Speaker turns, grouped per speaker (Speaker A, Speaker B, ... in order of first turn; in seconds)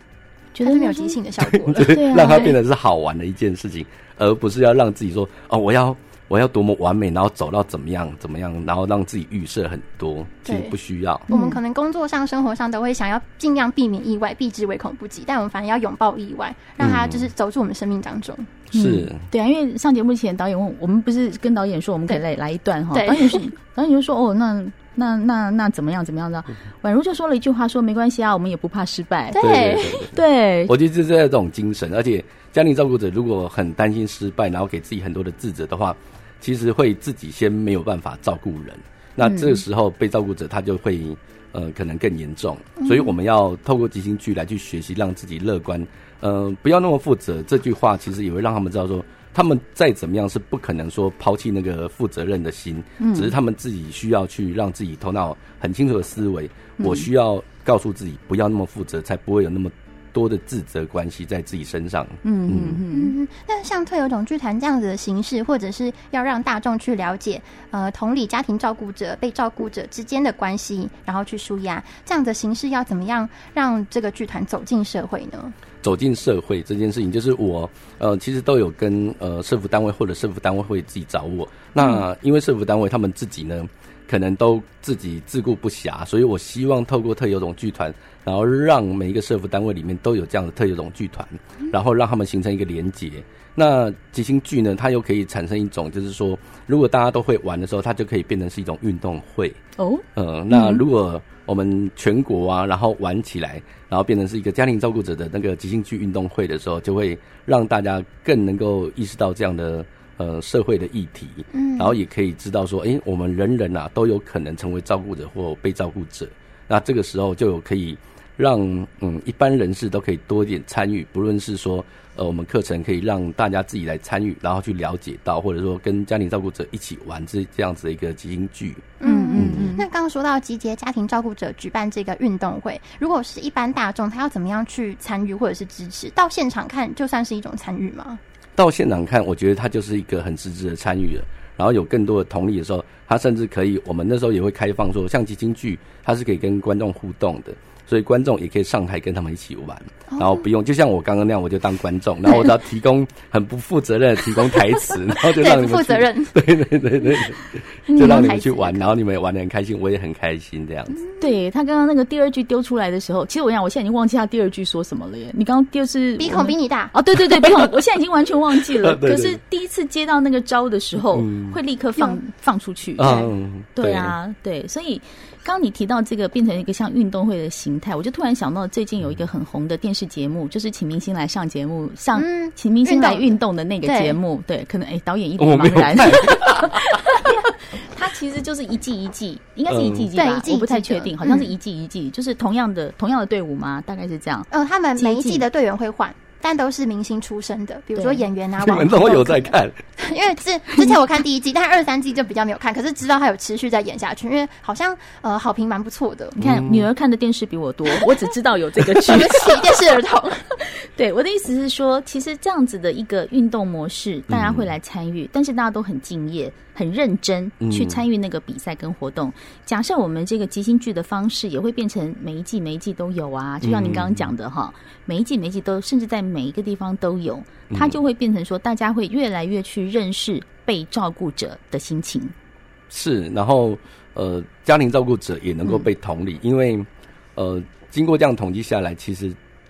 Speaker A: 0.5-1.2, 1.8-2.5, 11.3-11.6, 18.7-29.4, 30.1-30.7, 39.2-39.6, 53.0-53.3, 56.8-57.0, 62.2-63.1, 99.8-100.8, 129.0-129.8, 157.9-158.3, 161.2-195.4, 197.9-198.2, 206.3-209.6, 210.7-232.3
Speaker B: 0.6-2.6, 10.4-10.7, 11.3-18.5, 22.9-23.4, 29.3-30.1, 42.8-43.1, 62.9-75.5, 111.5-112.0, 129.0-138.2, 150.1-150.4, 155.1-156.3, 157.9-158.9, 166.2-166.9, 173.0-173.3, 182.2-184.2, 190.1-191.5, 194.5-206.4, 209.0-210.4
Speaker C: 1.4-11.3, 16.8-17.3, 18.7-19.3, 29.4-62.8, 75.8-99.6, 100.1-129.7, 138.6-161.0, 168.7-169.4, 171.1-171.6, 173.0-174.2, 185.4-186.8, 189.7-190.1, 198.6-199.8, 206.4-206.9, 214.3-214.7, 217.6-218.0, 223.6-224.3, 227.7-228.0, 232.9-239.4